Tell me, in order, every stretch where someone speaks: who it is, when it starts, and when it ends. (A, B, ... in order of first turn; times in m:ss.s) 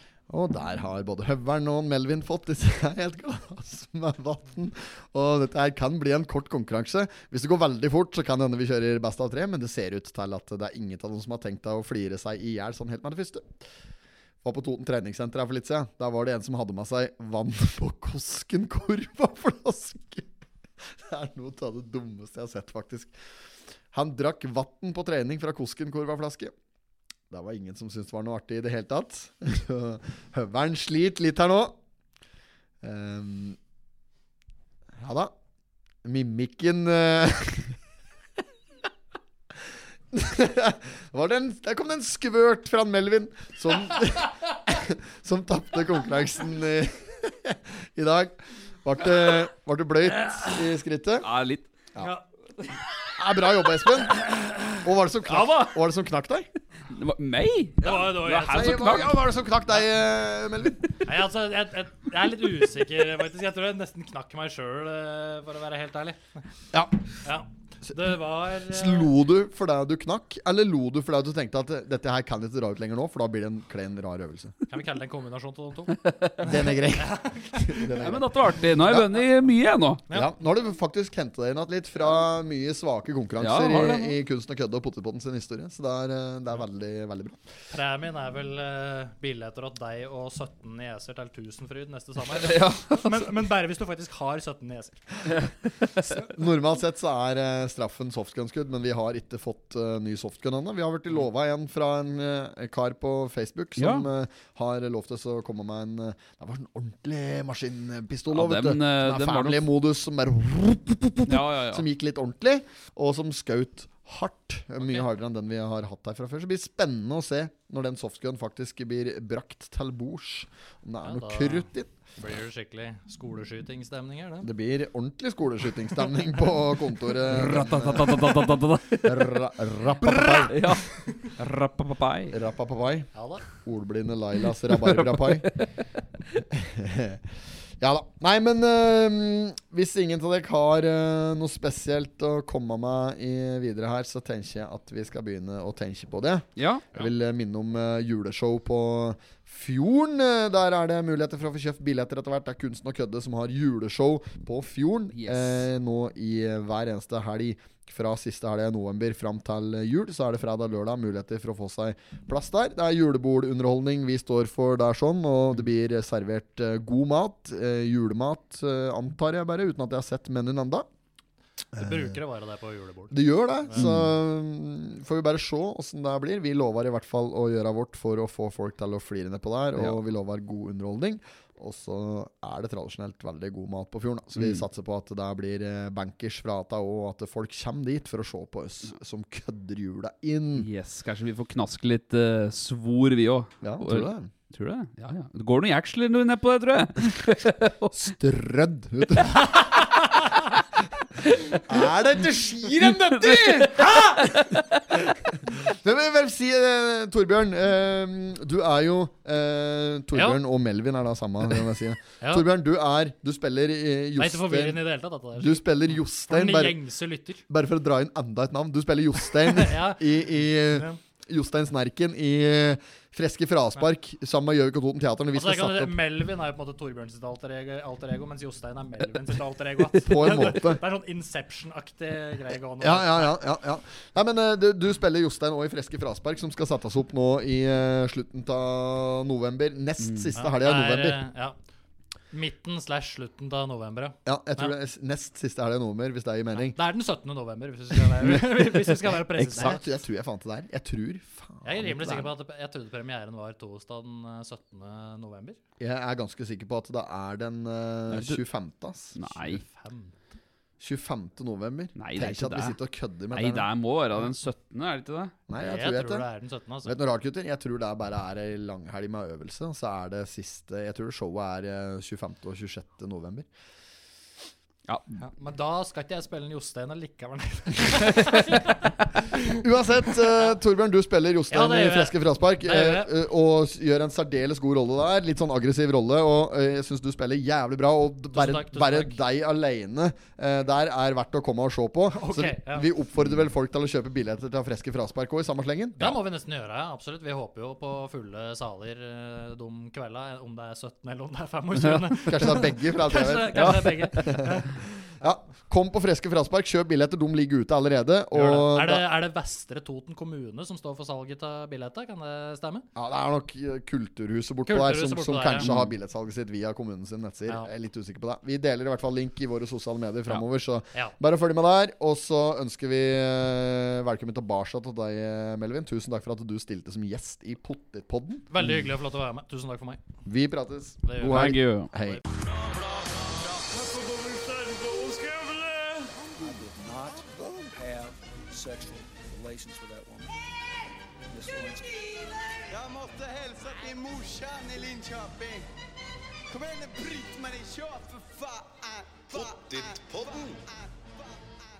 0:00.3-0:13.5 A
0:14.4-0:23.1 A
0:23.9-0:26.5 A
0:27.3-0:31.8 A
0:32.8-0:33.6 A
0:35.0-0:35.3 A
0:36.0-0:37.8 A
0:40.1-0:51.3 A
0:51.2-0:51.7 B
0:53.1-0:54.2 A
0:54.8-0:56.5 A
0:55.3-0:55.7 B
0:56.9-0:59.2 B
0:57.8-0:58.9 C
0:57.9-1:00.9 A
1:01.0-1:06.2 C
1:06.7-1:07.0 A
1:07.2-1:09.1 C
1:08.7-1:14.6 A
1:14.7-1:17.8 C
1:16.0-1:16.5 B
1:16.4-1:19.2 A
1:18.0-1:20.0 B
1:20.1-1:27.4 A
1:23.4-1:24.1 B
1:27.7-1:35.3 C
1:32.4-1:33.3 B
1:36.2-2:01.9 A
1:43.8-1:44.1 B
1:48.3-1:49.6 B
1:51.3-1:51.8 B
2:01.0-2:04.5 C
2:04.4-2:10.8 A
2:07.2-2:09.4 B
2:10.0-2:12.4 B
2:12.3-2:15.5 A
2:13.1-2:13.4 C
2:14.7-2:16.4 B
2:16.5-2:17.2 A
2:17.8-2:50.8 A
2:26.6-2:26.9 B
2:35.1-2:35.5 B
2:51.7-2:52.2 A
2:51.8-2:53.9 C
2:53.1-3:10.7 A
2:53.7-2:54.1 B
3:10.6-3:18.0 B
3:13.6-3:14.3 A
3:17.9-3:19.6 A
3:19.5-3:19.8 B
3:21.4-3:21.8 B
3:21.6-3:24.2 A
3:22.9-3:24.8 B
3:23.8-3:24.2 C
3:25.4-3:34.8 A
3:30.1-3:30.4 C
3:32.2-3:32.5 C
3:34.2-3:35.7 C
3:35.4-3:36.8 A
3:36.2-3:37.4 C
3:37.5-3:46.0 A
3:39.4-3:41.0 C
3:45.3-3:53.4 C
3:49.9-3:50.8 A
3:52.8-4:01.2 A
4:00.0-4:00.3 B
4:00.3-4:01.5 C
4:02.3-4:04.7 C
4:04.2-4:06.8 A
4:06.5-4:09.8 C
4:08.2-4:08.9 A
4:09.4-4:09.8 B
4:09.5-4:12.3 A
4:11.6-4:15.6 C
4:15.8-4:19.2 A
4:18.1-4:18.4 B
4:19.1-4:19.6 B
4:19.3-4:20.2 C
4:20.8-4:23.7 A
4:22.0-4:22.8 B
4:23.3-4:25.3 B
4:25.5-4:26.3 A
4:25.6-4:27.0 C
4:26.8-4:33.5 A
4:35.2-4:39.5 C
4:39.4-4:56.2 A
4:40.1-4:40.5 C
4:41.5-4:43.1 C
4:48.3-4:49.2 C
4:52.1-4:52.9 C
4:56.0-5:04.8 C
5:02.2-5:09.1 A
5:08.3-5:12.8 C
5:12.9-5:28.5 A
5:14.6-5:15.7 C
5:15.6-5:15.9 B
5:28.5-5:30.0 C
5:30.2-5:32.2 A
5:31.0-5:32.2 C
5:31.2-5:31.9 B
5:32.3-5:36.4 D
5:36.4-5:40.3 E
5:36.4-5:37.8 A
5:41.3-5:41.8 E
5:41.8-5:45.6 D
5:46.5-5:51.6 D